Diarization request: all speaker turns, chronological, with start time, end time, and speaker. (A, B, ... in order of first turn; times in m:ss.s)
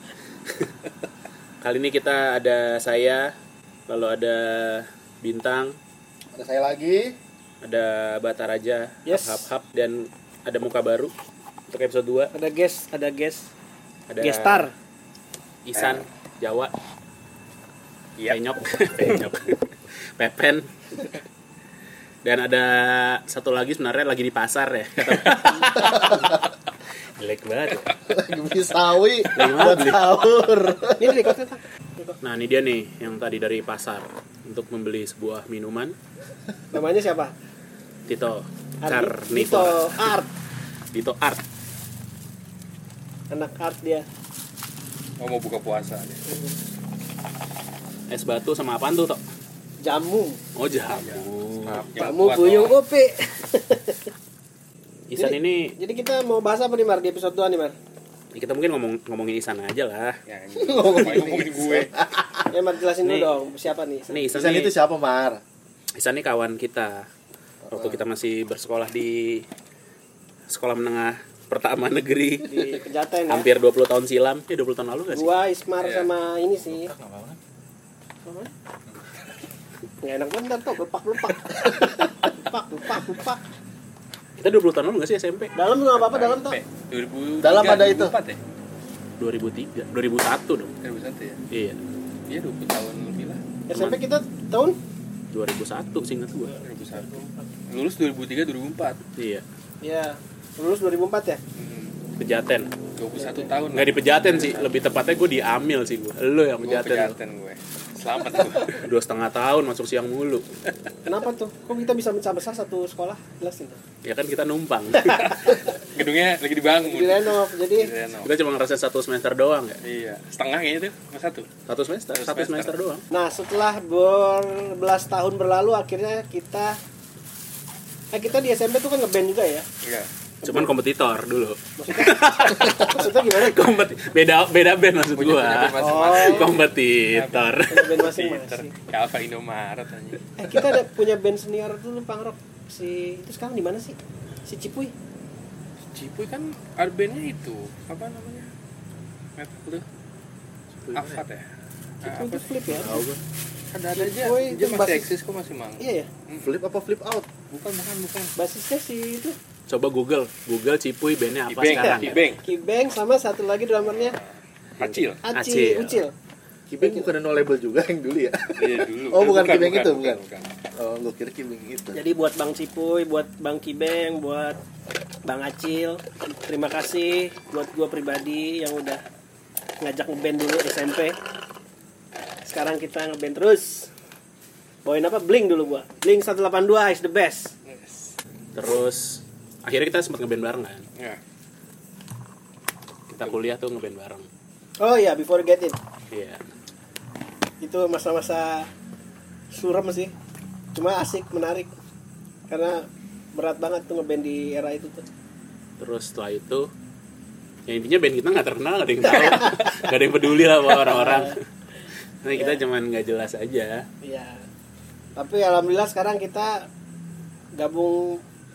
0:00.5-0:00.7 A
0:01.6-0:03.3 A
0:03.9-0:05.8 A
0:06.3-0:07.2 B
0:07.6-0:11.1 A
0:09.0-0:09.5 C
0:11.7-0:12.3 A
0:12.3-0:13.5 C
0:14.1-0:14.7 A
0:14.2-0:14.7 C
0:15.6-0:16.7 A
0:15.8-0:16.0 D
0:18.3-0:19.6 A
0:18.9-0:19.3 D
0:20.2-0:21.0 A
0:22.2-0:26.5 A
0:25.1-0:25.8 D
0:26.0-0:26.4 B
0:27.2-0:27.9 A
0:28.1-0:31.3 B
0:29.3-0:30.2 A
0:31.0-0:32.2 C
0:32.2-0:35.9 A
0:36.7-0:37.3 C
0:38.1-0:40.2 A
0:38.8-0:40.3 C
0:40.9-0:41.4 A
0:43.3-0:44.0 C
0:45.2-0:46.2 D
0:46.3-0:46.6 C
0:48.1-0:49.2 A
0:49.8-0:50.4 C
0:50.6-0:51.8 A
0:50.9-0:52.8 D
0:52.0-0:54.1 C
0:55.1-0:55.7 A
0:55.2-0:57.7 C
0:58.3-1:00.2 A
1:00.3-1:01.9 D
1:00.6-1:02.3 B
1:02.5-1:04.2 C
1:03.0-1:03.3 A
1:04.1-1:04.8 A
1:04.3-1:05.4 B
1:06.0-1:07.0 A
1:07.7-1:08.0 B
1:07.7-1:09.4 A
1:10.5-1:15.3 A
1:12.4-1:13.5 C
1:15.1-1:16.9 C
1:15.8-1:16.1 D
1:20.0-1:23.4 C
1:24.4-1:25.5 A
1:25.6-1:26.6 C
1:25.9-1:28.4 D
1:27.4-1:28.1 B
1:29.2-1:30.7 A
1:30.8-1:31.4 D
1:31.5-1:31.8 A
1:32.3-1:33.4 D
1:33.7-1:34.8 C
1:33.7-1:34.0 A
1:35.3-1:36.5 A
1:36.4-1:37.5 C
1:36.6-1:39.0 D
1:39.2-1:39.4 A
1:39.8-1:41.4 C
1:41.6-1:42.0 D
1:42.2-1:42.7 A
1:43.0-1:44.7 D
1:43.2-1:43.5 C
1:43.7-1:47.2 A
1:46.6-1:48.8 D
1:48.7-1:50.4 A
1:51.0-1:53.8 C
1:54.0-1:55.5 A
1:55.0-1:55.6 C
1:55.2-1:58.3 D
1:56.8-1:57.9 C
1:58.2-1:59.8 A
1:59.8-2:01.5 D
2:01.7-2:03.0 A
2:02.1-2:02.8 D
2:03.1-2:06.8 C
2:08.1-2:09.6 C
2:09.8-2:10.1 D
2:10.4-2:10.7 C
2:10.4-2:18.1 A
2:11.8-2:13.6 C
2:15.2-2:20.2 D
2:15.8-2:16.6 C
2:17.7-2:18.7 C
2:20.4-2:24.9 C
2:25.9-2:28.5 D
2:29.4-2:29.8 D
2:30.8-2:31.2 A
2:30.9-2:31.5 D
2:32.0-2:32.6 D
2:32.0-2:33.1 C
2:32.8-2:33.1 A
2:33.7-2:36.5 D
2:33.9-2:35.1 C
2:35.8-2:36.1 C
2:36.4-2:37.3 B
2:37.5-2:38.3 D
2:38.4-2:39.4 C
2:39.7-2:42.3 A
2:41.5-2:42.4 D
2:41.8-2:44.2 C
2:43.8-2:45.2 D
2:44.8-2:46.0 A
2:45.2-2:46.1 C
2:46.7-2:50.2 B
2:48.6-2:50.5 D
2:50.8-2:52.0 B
2:51.9-2:54.6 C
2:55.2-2:59.0 C
2:59.8-3:01.2 C
3:02.4-3:03.9 C
3:04.8-3:07.5 C
3:07.7-3:08.1 D
3:08.5-3:10.8 A
3:13.1-3:14.3 A
3:14.8-3:15.8 C
3:16.1-3:16.4 A
3:17.6-3:18.7 C
3:19.5-3:20.1 C
3:20.7-3:21.7 C
3:22.5-3:25.0 C
3:25.8-3:26.7 A
3:27.7-3:31.4 A
3:29.1-3:29.8 C
3:30.8-3:31.3 C
3:32.2-3:33.8 A
3:32.3-3:32.6 C
3:34.0-3:34.4 C
3:35.2-3:36.7 C
3:37.6-3:38.2 C